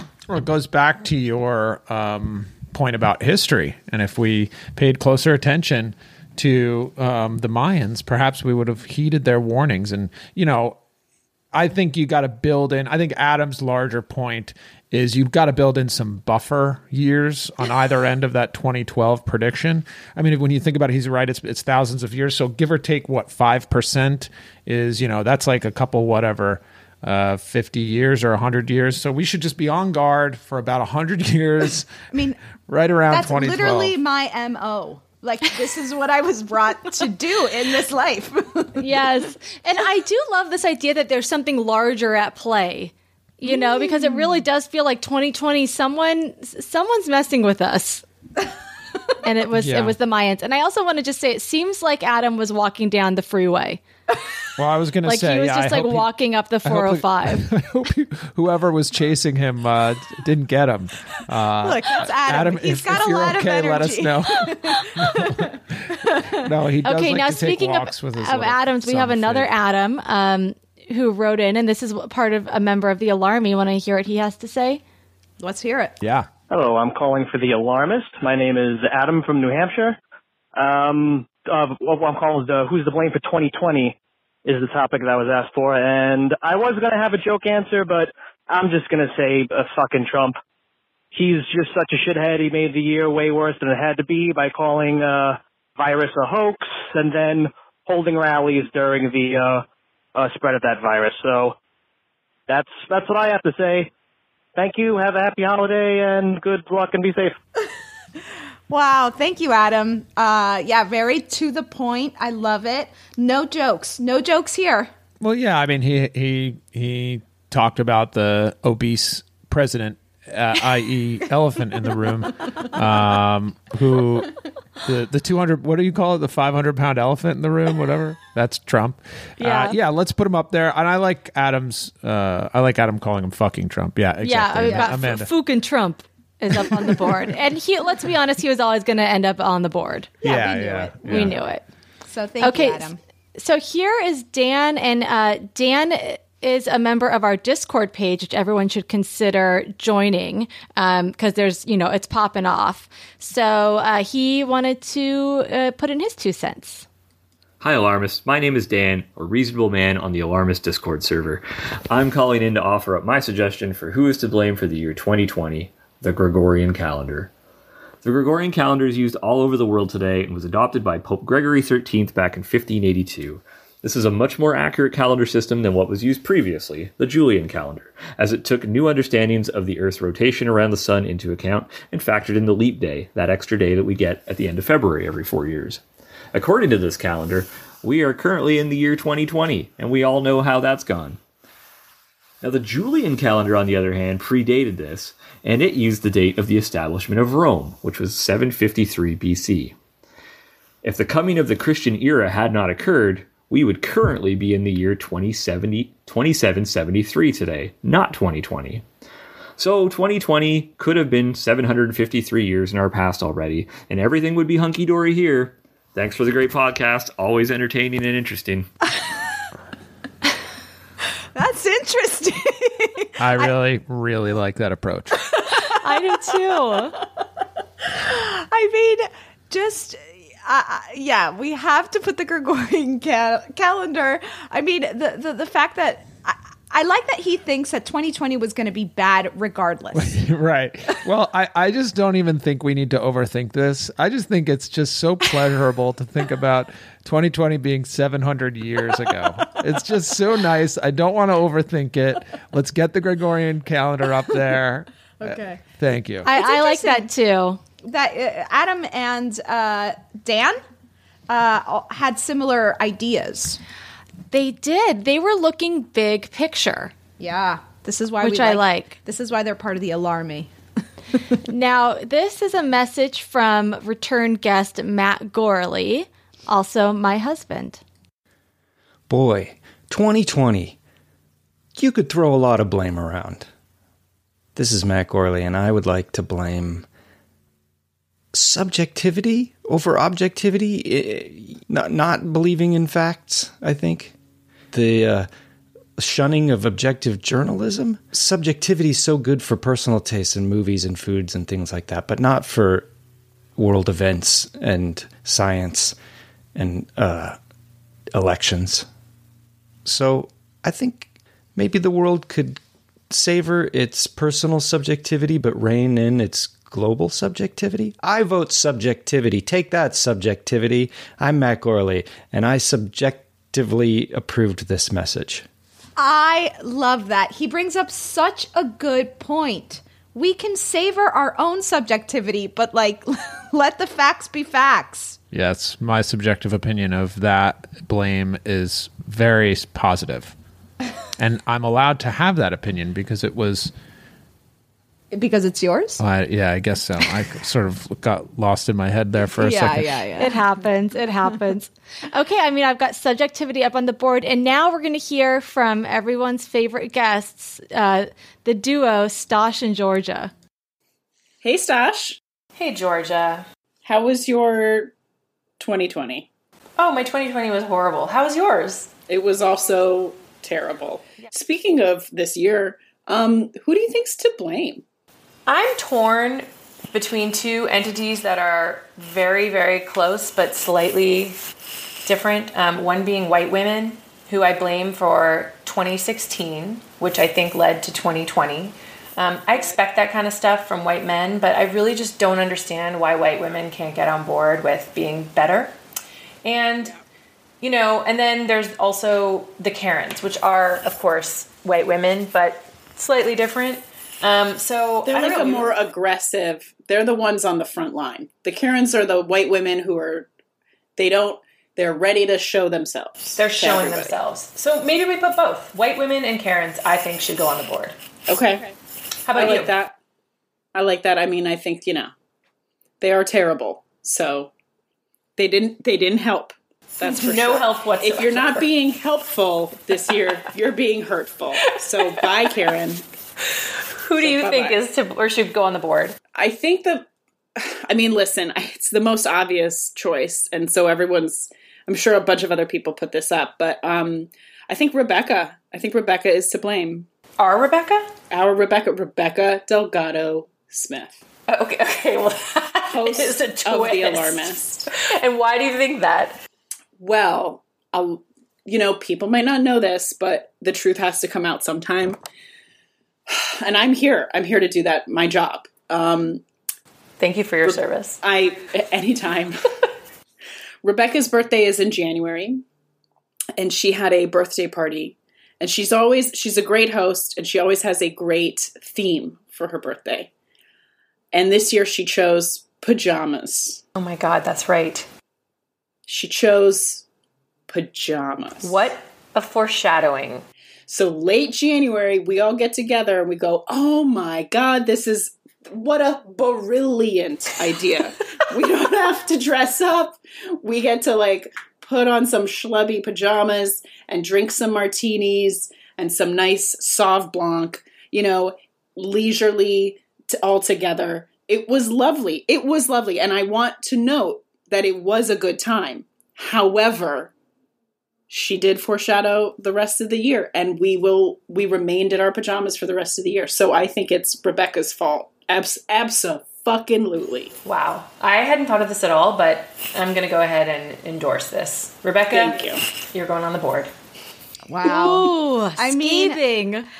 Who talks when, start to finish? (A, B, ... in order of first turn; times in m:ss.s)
0:00.3-0:10.8 A
0:11.5-0:31.9 A
0:32.1-0:32.4 B
0:32.7-0:34.0 A
0:33.1-0:38.8 B
0:38.8-0:48.0 C
0:43.4-0:44.4 B
0:49.2-0:53.8 C
0:49.6-0:50.0 A
0:54.6-0:56.1 A
0:55.1-0:57.5 C
0:56.6-1:05.5 A
1:01.6-1:06.4 B
1:06.3-1:09.5 A
1:06.8-1:14.8 C
1:15.4-1:16.0 B
1:16.0-1:16.3 A
1:16.5-1:20.0 D
1:20.6-1:30.4 D
1:31.1-1:39.6 D
1:40.2-1:41.6 D
1:42.5-1:43.9 D
1:44.6-1:47.3 D
1:48.7-1:54.9 B
1:55.2-2:15.3 A
2:09.4-2:09.8 C
2:14.2-2:20.2 C
2:20.2-2:21.3 A
2:20.2-2:21.4 B
2:21.0-2:21.6 C
2:22.1-2:23.0 B
2:22.4-2:36.9 C
2:37.6-2:47.3 E
2:48.0-3:05.8 E
3:06.3-3:11.2 E
3:12.4-3:19.8 E
3:20.8-3:28.8 E
3:29.6-3:38.7 E
3:41.4-3:43.5 B
3:43.2-3:45.2 A
3:45.8-3:47.0 C
3:47.9-4:00.1 B
3:59.9-4:16.3 A
4:15.2-4:15.6 B
4:16.2-4:17.6 C
4:16.3-4:17.1 B
4:17.8-4:20.6 B
4:21.3-4:23.6 B
4:24.3-4:26.9 C
4:27.2-4:30.5 B
4:28.2-4:29.0 C
4:31.5-4:37.8 C
4:39.1-4:40.8 F
4:41.8-4:43.5 F
4:44.6-4:46.9 F
4:48.3-4:54.2 F
4:54.7-4:55.3 F
4:56.0-5:02.9 F
5:03.6-5:06.0 F
5:06.6-5:07.4 F
5:08.1-5:08.9 F
5:09.9-5:25.4 F
5:26.0-5:35.2 B
5:35.3-5:40.4 A
5:41.2-5:43.7 A
5:45.1-5:46.0 B
5:46.0-5:50.0 A
5:49.4-5:50.4 B
5:50.2-6:00.3 C
6:01.4-6:02.2 G
6:02.6-6:03.5 H
6:03.8-6:04.9 G
6:05.6-6:06.3 G
6:06.8-6:08.9 H
6:09.1-6:14.8 G
6:15.5-6:21.4 H
6:22.0-6:35.8 H
6:36.4-6:36.9 H
6:37.6-6:45.8 H
6:45.0-6:50.3 G
6:51.0-6:54.2 G
6:53.3-6:58.0 H
6:58.3-6:58.7 G
6:59.3-6:59.8 H
6:59.3-7:00.0 G
7:00.7-7:02.1 G
7:03.0-7:04.5 G
7:05.4-7:13.0 G
7:07.0-7:08.7 H
7:11.6-7:12.7 H
7:14.0-7:16.2 H
7:14.2-7:14.8 G
7:16.3-7:17.0 G
7:17.6-7:27.1 G
7:27.4-7:28.1 H
7:28.3-7:31.2 G
7:31.5-7:36.4 H
7:32.9-7:34.9 G
7:37.0-7:42.2 G
7:43.3-7:46.4 G
7:47.2-7:48.2 H
7:47.6-7:49.6 G
7:50.8-7:52.6 G
7:53.6-8:00.3 G
8:01.3-8:03.8 G
8:04.0-8:05.1 H
8:06.1-8:07.0 G
8:07.7-8:08.8 G
8:08.6-8:10.4 H
8:10.9-8:37.3 G
8:17.5-8:18.6 H
8:38.3-8:47.5 G
8:47.6-8:53.9 H
8:52.3-8:52.8 G
8:54.7-8:56.4 B
8:54.8-8:56.9 C